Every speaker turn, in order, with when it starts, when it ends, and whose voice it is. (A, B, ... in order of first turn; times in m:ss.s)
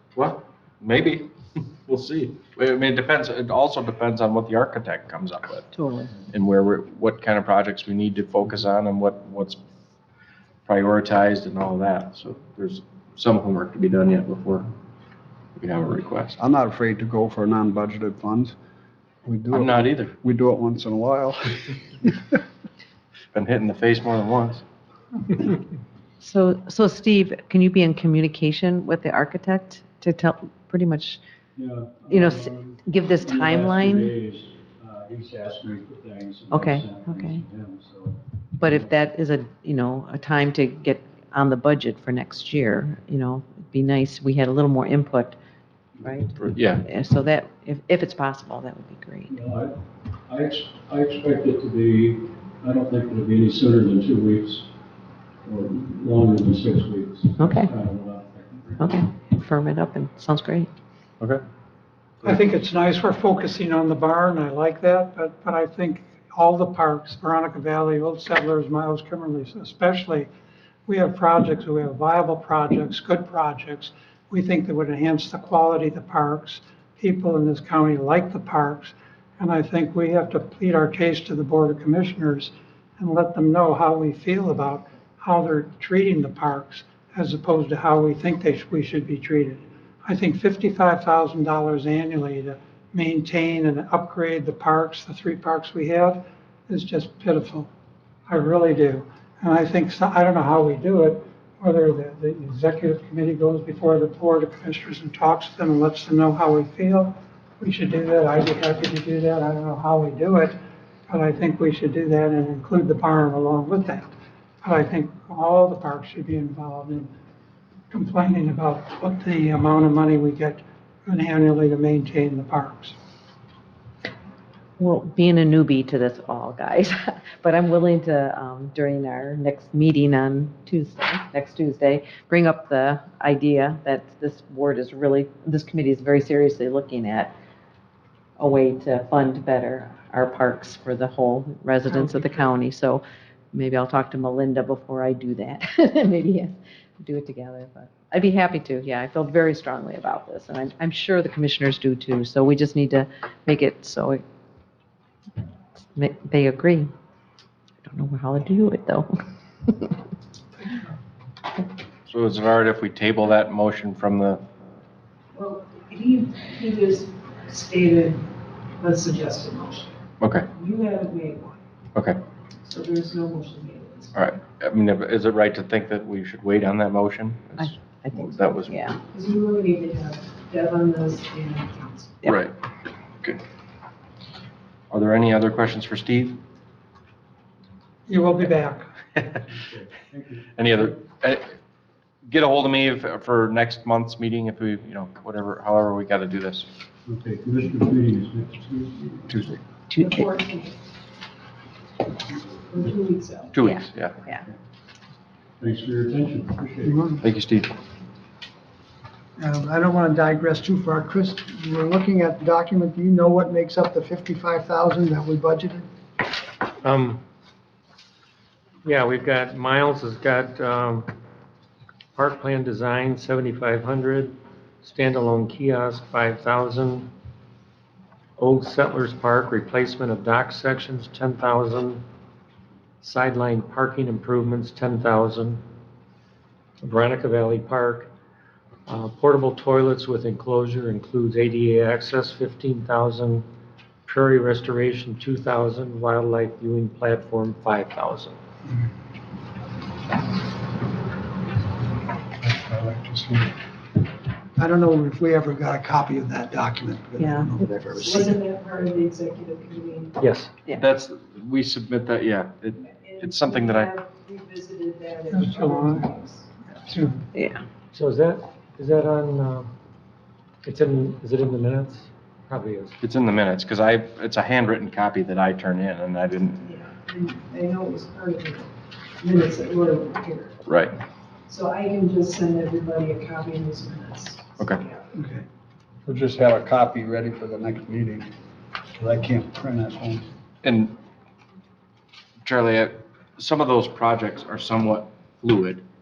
0:00.2-0:05.7 A
0:05.7-0:06.1 B
0:06.3-0:09.6 A
0:10.7-0:14.7 A
0:15.6-0:16.4 A
0:16.4-0:18.5 C
0:19.2-0:22.1 C
0:19.5-0:20.1 A
0:23.3-0:24.6 A
0:26.2-0:31.2 B
0:31.6-0:38.9 D
0:32.1-0:34.1 B
0:36.5-0:37.4 B
0:38.6-0:45.4 B
0:46.0-0:49.3 B
0:46.0-0:46.6 D
0:46.4-0:46.8 A
0:49.3-0:49.7 D
0:50.3-0:54.7 D
0:55.4-0:59.0 D
0:57.4-0:57.7 B
0:58.8-1:00.7 B
1:02.2-1:10.3 E
1:10.9-1:37.7 E
1:38.3-1:57.1 E
1:57.9-2:03.0 E
2:04.8-2:17.3 B
2:18.4-2:34.2 B
2:21.9-2:22.5 E
2:35.9-2:36.9 B
2:37.8-2:39.1 B
2:39.7-2:39.9 B
2:42.1-2:44.4 A
2:45.4-2:48.3 F
2:48.8-2:49.9 F
2:50.2-2:50.5 A
2:50.5-2:51.6 F
2:52.7-2:54.2 F
2:54.2-2:58.8 A
2:57.6-2:59.0 B
2:59.1-3:02.1 F
3:02.3-3:02.5 A
3:04.9-3:06.4 A
3:08.1-3:08.9 E
3:09.5-3:10.5 D
3:10.6-3:11.6 A
3:12.3-3:16.7 A
3:17.1-3:19.6 D
3:20.0-3:20.7 F
3:22.7-3:23.5 F
3:23.5-3:24.2 A
3:23.6-3:24.4 B
3:25.6-3:27.0 D
3:26.8-3:27.2 G
3:27.2-3:27.7 A
3:29.4-3:35.9 G
3:36.8-3:37.2 H
3:38.8-3:41.1 H
3:42.2-3:47.1 H
3:48.4-3:52.0 H
3:53.0-3:55.6 H
3:56.8-3:58.1 H
3:58.9-4:03.4 H
4:04.1-4:08.4 H
4:12.4-4:13.5 C
4:14.6-4:18.4 G
4:17.2-4:17.5 B
4:18.1-4:20.1 F
4:20.2-4:20.5 H
4:20.8-4:24.0 A
4:23.0-4:26.5 F
4:25.3-4:26.1 E
4:26.9-4:27.2 E
4:27.3-4:27.6 B
4:27.9-4:29.7 H
4:30.6-4:32.9 H
4:33.0-4:36.7 A
4:36.6-4:40.6 F
4:40.7-4:41.0 A
4:41.5-4:44.6 F
4:44.6-4:44.8 A
4:45.2-4:45.4 G
4:46.1-4:48.3 C
4:49.0-4:50.2 C
4:50.6-4:50.9 A
4:52.4-4:55.8 A